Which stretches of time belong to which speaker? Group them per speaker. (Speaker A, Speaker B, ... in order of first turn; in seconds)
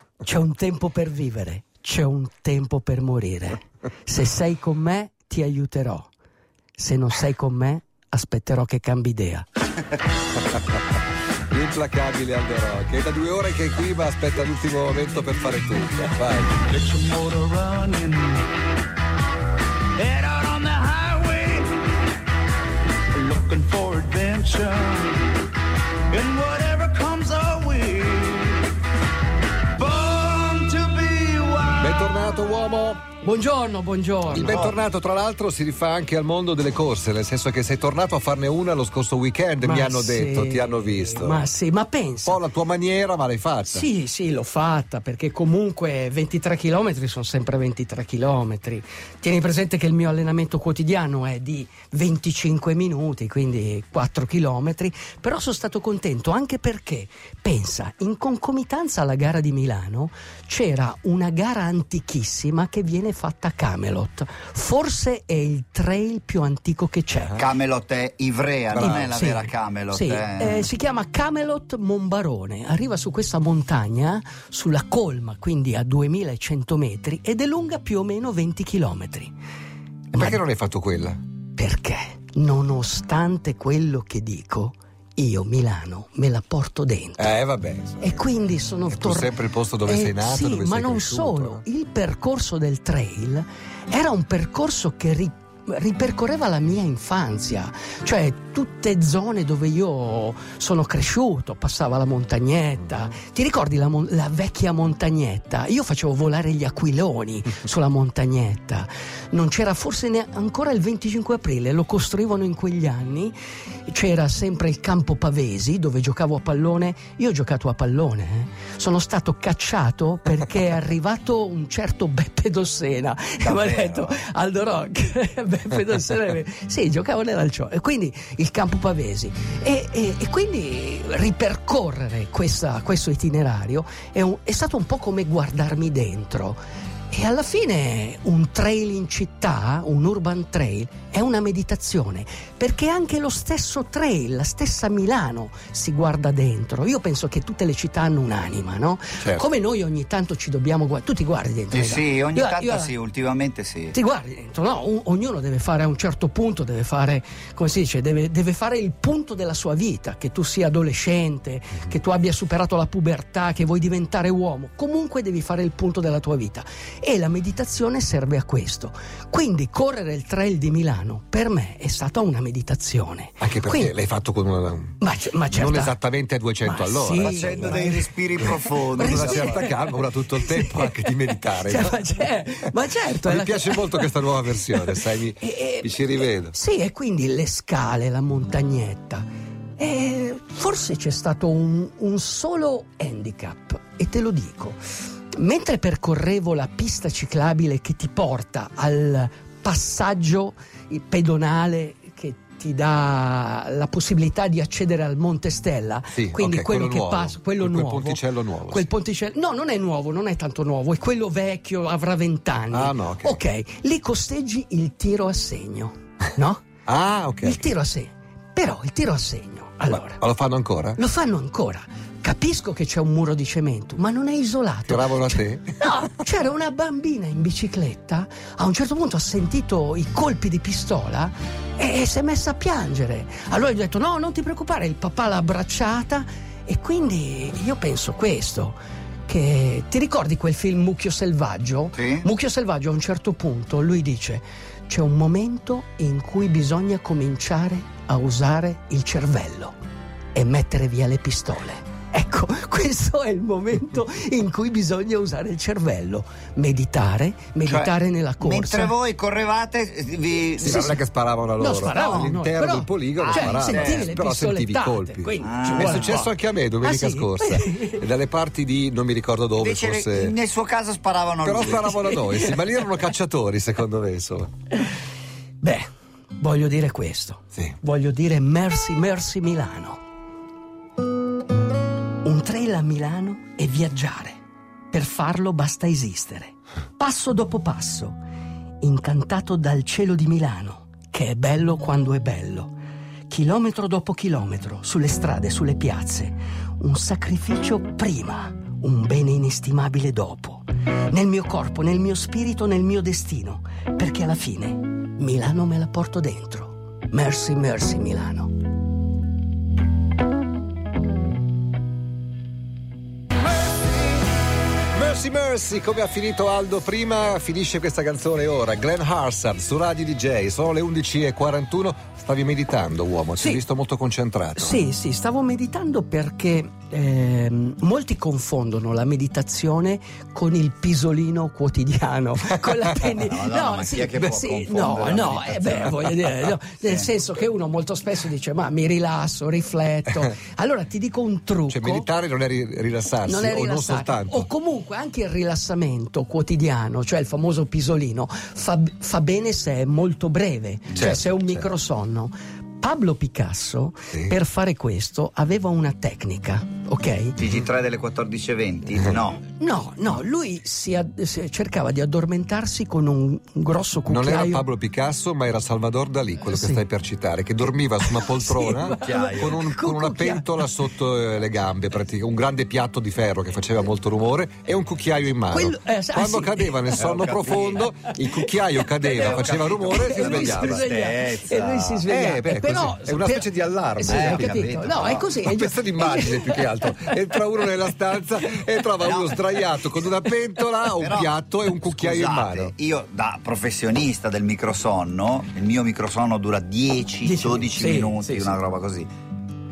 Speaker A: 0.2-6.1, 6.8-9.5, 33.2-34.7, 39.6-42.4, 43.7-67.4, 68.8-79.3, 80.1-80.4, 81.6-87.3, 88.0-113.3, 113.9-152.9, 153.9-173.9, 175.0-176.0, 176.6-189.3, 189.8-194.8, 195.3-216.6, 217.4-220.2, 221.0-249.8, 250.3-258.9, 260.6-261.0, 261.6-268.1, 272.1-272.6, 275.6-280.0, 282.2-284.4, 284.9-288.2, 288.8-292.7, 293.3-308.5, 324.6-342.1, 343.2-357.4, 359.6-364.7, 366.5-366.8, 367.6-370.8, 375.5-377.0, 379.2-387.1, 397.2-398.5
Speaker B: 11.5-16.6, 31.8-33.0, 34.3-41.5, 42.3-43.9, 67.1-67.5, 68.7-69.1, 80.2-81.2, 87.2-88.2, 88.9-91.6, 173.4-175.0, 175.5-177.9, 178.9-182.3, 183.2-186.6, 206.2-208.9, 212.7-213.4, 216.9-217.7, 219.9-221.0, 224.9-226.0, 260.6-270.4, 271.4-274.5, 314.9-324.8, 341.7-344.5, 351.0-351.6, 364.1-380.9, 382.1-384.7, 385.4-392.7
Speaker C: 16.6-18.5, 20.0-21.8, 23.1-25.3, 26.1-28.7, 29.8-31.7
Speaker D: 34.4-34.8, 67.4-70.7, 123.4-124.2, 151.7-153.9, 177.2-179.7, 242.0-242.2, 257.7-260.9, 263.2-264.1, 265.4-266.2, 269.6-272.1, 333.2-336.0, 357.4-359.4, 368.9-369.6, 376.9-377.9, 378.9-382.1, 384.0-385.3, 389.0-389.5, 391.0-399.1